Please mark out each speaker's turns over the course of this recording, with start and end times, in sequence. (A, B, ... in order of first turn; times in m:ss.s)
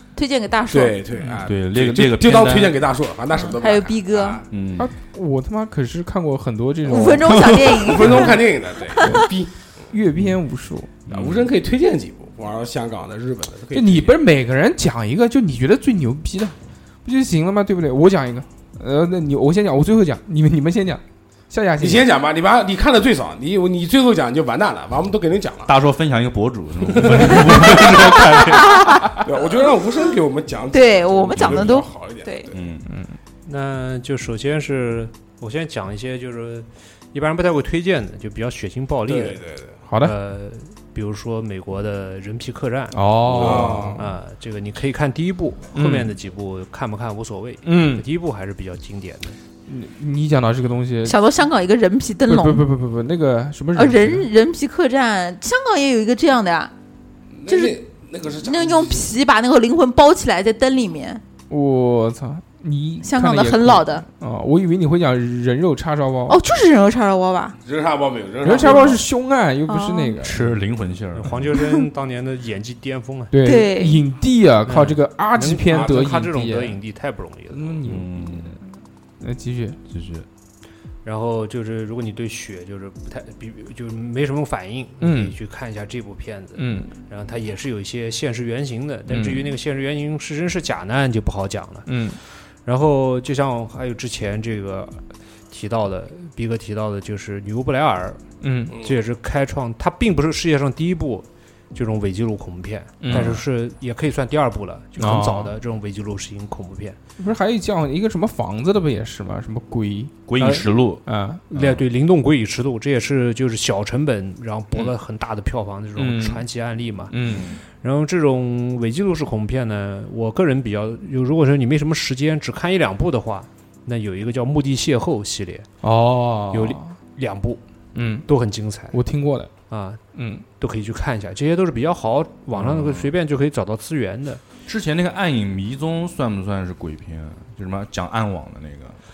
0:00.1-0:01.0 A
0:00.7-0:04.5 B
0:01.4-0:02.8 C
0:03.3-0:04.4 A
0:04.5-0:04.9 C
0:04.8-0:07.5 D
0:06.8-0:09.2 A
0:07.7-0:09.7 B
0:09.0-0:09.2 D
0:09.9-0:10.9 D
0:11.1-0:11.5 C
0:11.1-0:14.2 B
0:13.7-0:22.1 D
0:21.8-0:25.7 B
0:25.7-0:29.0 C
0:26.9-0:28.3 B
0:28.5-0:29.3 A
0:29.1-0:32.6 B
0:30.7-0:32.5 A
0:31.3-0:31.7 C
0:32.5-0:32.9 C
0:32.8-0:33.2 D
0:33.4-0:39.4 E
0:39.0-0:39.9 B
0:39.9-0:40.1 D
0:40.0-0:43.1 E
0:42.9-0:44.1 D
0:43.2-0:43.9 C
0:43.4-0:44.0 B
0:44.0-0:49.4 E
0:45.7-0:46.1 D
0:47.6-0:48.0 D
0:49.7-0:51.2 D
0:51.0-0:52.7 A
0:52.3-0:54.3 D
0:53.7-0:56.7 A
0:57.3-0:59.1 B
0:57.5-0:57.8 A
0:58.4-1:01.2 A
1:01.5-1:06.4 D
1:03.0-1:04.0 A
1:06.3-1:07.6 A
1:07.6-1:09.0 B
1:08.4-1:10.5 D
1:08.6-1:09.0 A
1:09.7-1:10.2 A
1:10.2-1:11.6 C
1:11.1-1:13.3 E
1:13.3-1:16.8 D
1:13.4-1:14.0 A
1:14.6-1:17.9 E
1:15.7-1:16.0 B
1:17.5-1:18.6 D
1:17.8-1:18.6 C
1:19.2-1:19.8 D
1:19.9-1:20.2 C
1:21.0-1:38.2 E
1:25.0-1:25.3 D
1:26.5-1:26.9 D
1:29.1-1:29.6 D
1:31.8-1:32.2 D
1:38.4-1:38.8 D
1:38.7-1:47.0 E
1:43.0-1:43.4 D
1:43.1-1:43.4 C
1:45.0-1:45.6 D
1:47.2-1:50.5 D
1:50.3-1:51.8 C
1:50.4-1:50.7 E
1:51.0-1:51.4 D
1:51.5-1:57.2 E
1:56.0-1:56.5 D
1:57.1-1:57.5 D
1:57.2-1:57.6 C
1:57.8-2:05.7 E
2:05.8-2:06.9 D
2:06.5-2:07.6 E
2:07.9-2:08.3 D
2:08.3-2:09.0 E
2:08.9-2:09.5 D
2:09.7-2:10.0 E
2:10.1-2:10.4 D
2:10.6-2:14.4 E
2:12.5-2:13.1 C
2:14.6-2:19.0 C